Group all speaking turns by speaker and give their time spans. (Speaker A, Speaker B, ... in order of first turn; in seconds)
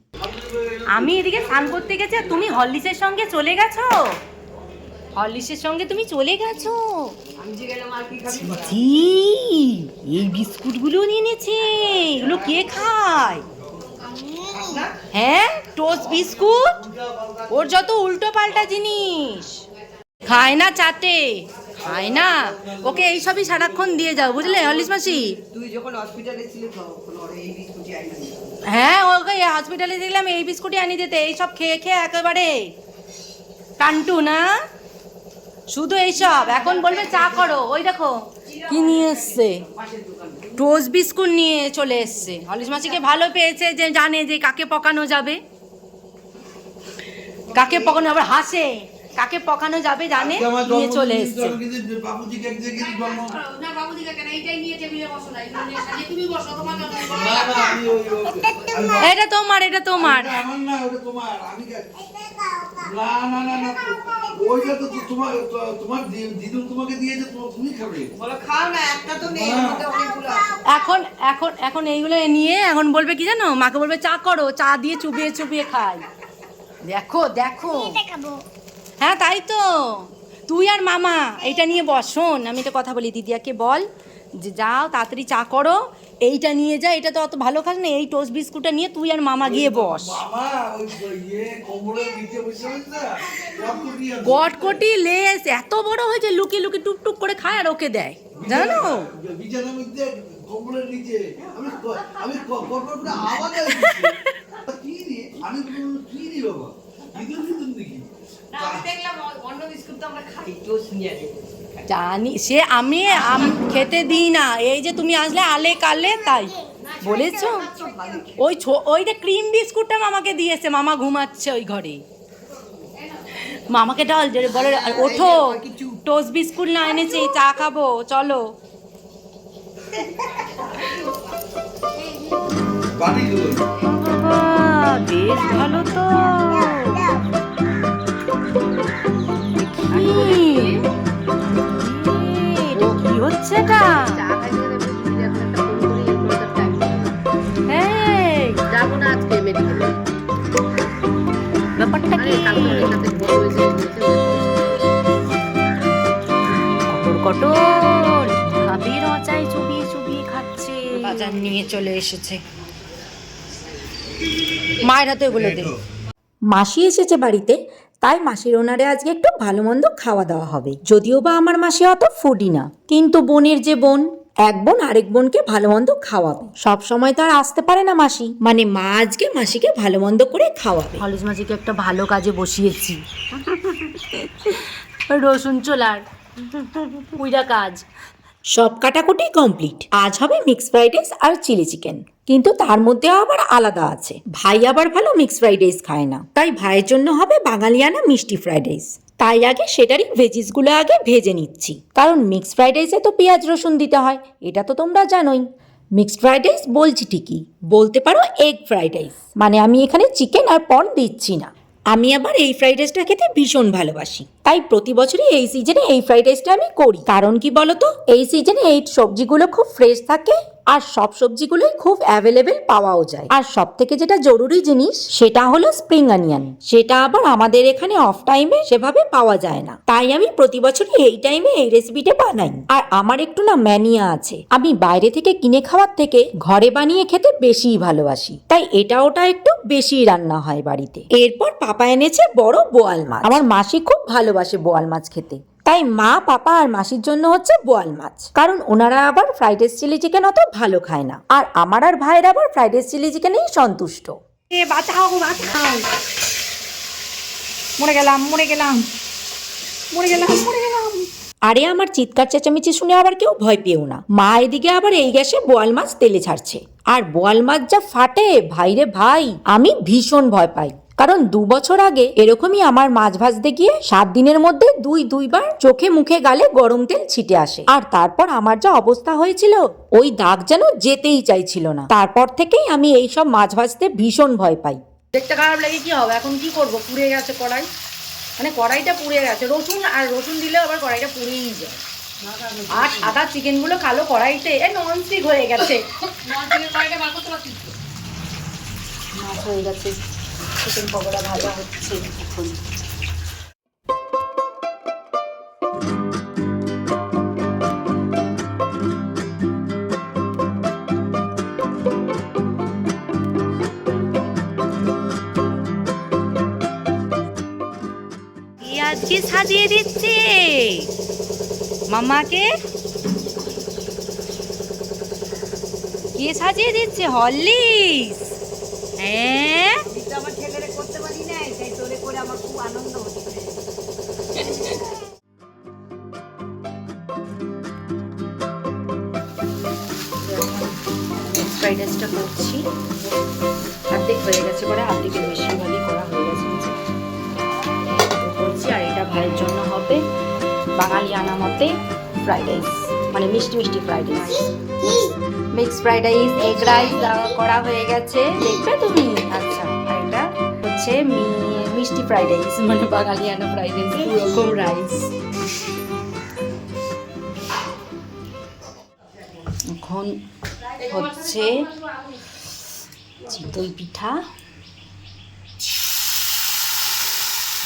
Speaker A: 0.2-2.3, 15.9-17.6, 21.8-24.1, 50.1-53.5, 57.0-59.1, 60.0-68.1, 69.2-69.9, 89.4-94.8, 98.3-104.1, 104.7-108.9, 132.9-133.6
Speaker B: 0.9-4.2, 5.1-7.2, 8.4-13.4, 15.1-16.8, 17.5-19.6, 20.2-25.4, 28.6-32.7, 33.8-34.5, 35.7-39.6, 40.5-45.4, 47.5-51.6, 53.5-57.0, 59.0-60.4, 70.6-76.1, 76.8-78.3, 79.0-83.8, 84.4-90.2, 94.2-99.1, 103.6-104.3, 111.8-122.0, 123.4-128.5, 133.8-137.2, 139.5-140.8, 141.5-144.2, 147.7-148.6, 151.7-153.0, 156.9-162.4, 164.8-165.7, 181.0-187.8, 254.5-255.8, 257.8-258.8, 259.9-261.1, 285.1-287.7, 288.4-291.8, 292.7-297.4, 299.1-302.6, 318.6-320.9, 321.9-322.5, 326.1-328.3, 329.0-329.8, 340.2-342.6, 343.9-346.7, 348.0-350.0, 350.8-351.7, 352.2-365.1, 369.7-370.2, 370.8-371.7, 373.2-374.2
Speaker C: 7.4-8.8, 14.4-14.9, 24.4-28.6, 36.2-37.5, 38.5-40.6, 58.5-58.9, 68.1-70.5, 108.5-111.8, 117.6-118.4, 124.5-126.0, 292.2-292.8, 329.8-333.6
Speaker D: 8.5-9.0, 166.5-181.0, 188.5-205.4, 206.0-254.2, 261.4-284.8
Speaker E: 139.9-140.7, 143.8-147.2, 148.7-150.0, 152.2-154.9